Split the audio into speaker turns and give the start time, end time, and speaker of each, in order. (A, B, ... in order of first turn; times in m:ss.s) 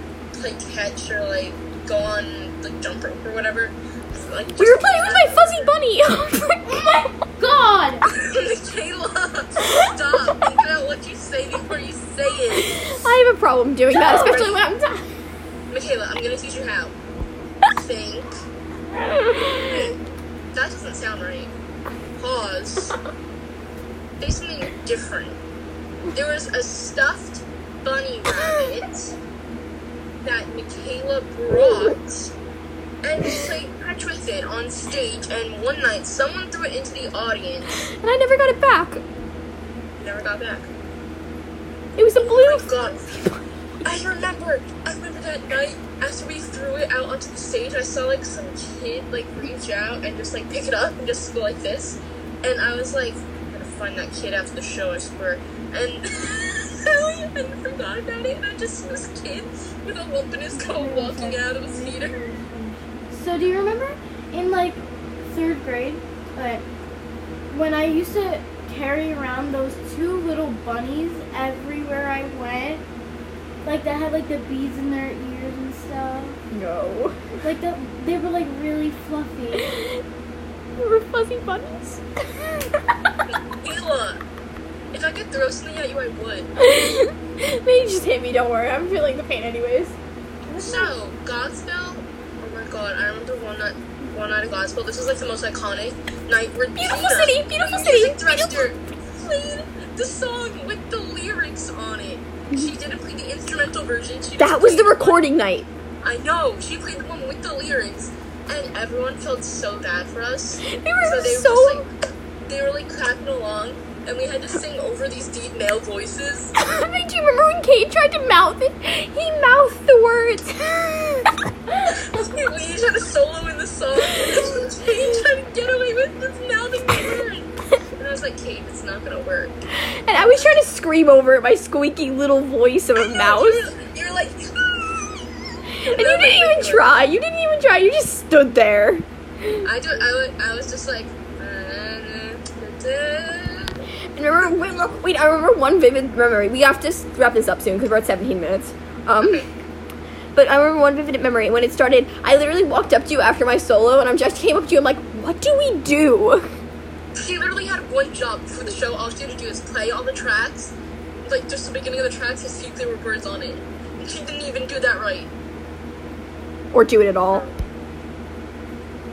0:00.3-0:05.7 A
0:04.6-0:07.1 B
0:07.4-0:08.0 C
0:08.1-0:12.9 A
0:12.6-0:15.1 B
0:13.9-0:14.6 A
0:15.7-0:16.9 A
0:17.7-0:18.4 A
0:19.0-0:19.6 B
0:19.6-0:19.9 A
0:20.5-0:21.5 A
0:22.2-0:23.0 A
0:24.2-0:25.4 A
0:26.1-0:29.1 A
0:30.2-0:32.3 A
0:33.0-0:37.8 A
0:38.0-0:39.0 B
0:40.0-0:40.7 A
0:42.0-0:43.4 B
0:42.2-0:43.1 A
0:43.8-1:02.2 A
1:00.5-1:06.6 C
1:07.5-1:12.8 C
1:13.6-1:16.4 C
1:16.5-1:17.4 B
1:17.4-1:19.7 C
1:19.6-1:20.0 B
1:20.8-1:22.8 B
1:23.3-1:24.2 A
1:24.9-1:26.5 A
1:26.6-1:30.0 B
1:30.5-1:31.0 C
1:30.6-1:45.2 A
1:36.8-1:38.7 B
1:44.4-1:45.7 B
1:46.0-1:51.9 A
1:50.7-1:51.8 B
1:52.4-1:56.5 A
1:56.6-2:01.3 B
2:01.9-2:09.6 A
2:10.0-2:13.7 B
2:10.1-2:10.6 A
2:13.1-2:17.0 A
2:15.9-2:19.6 B
2:19.6-2:23.8 A
2:24.2-2:29.4 B
2:29.2-2:29.4 A
2:30.3-2:36.4 B
2:37.2-2:40.7 A
2:41.2-2:45.3 A
2:46.7-2:47.4 B
2:47.3-2:47.6 A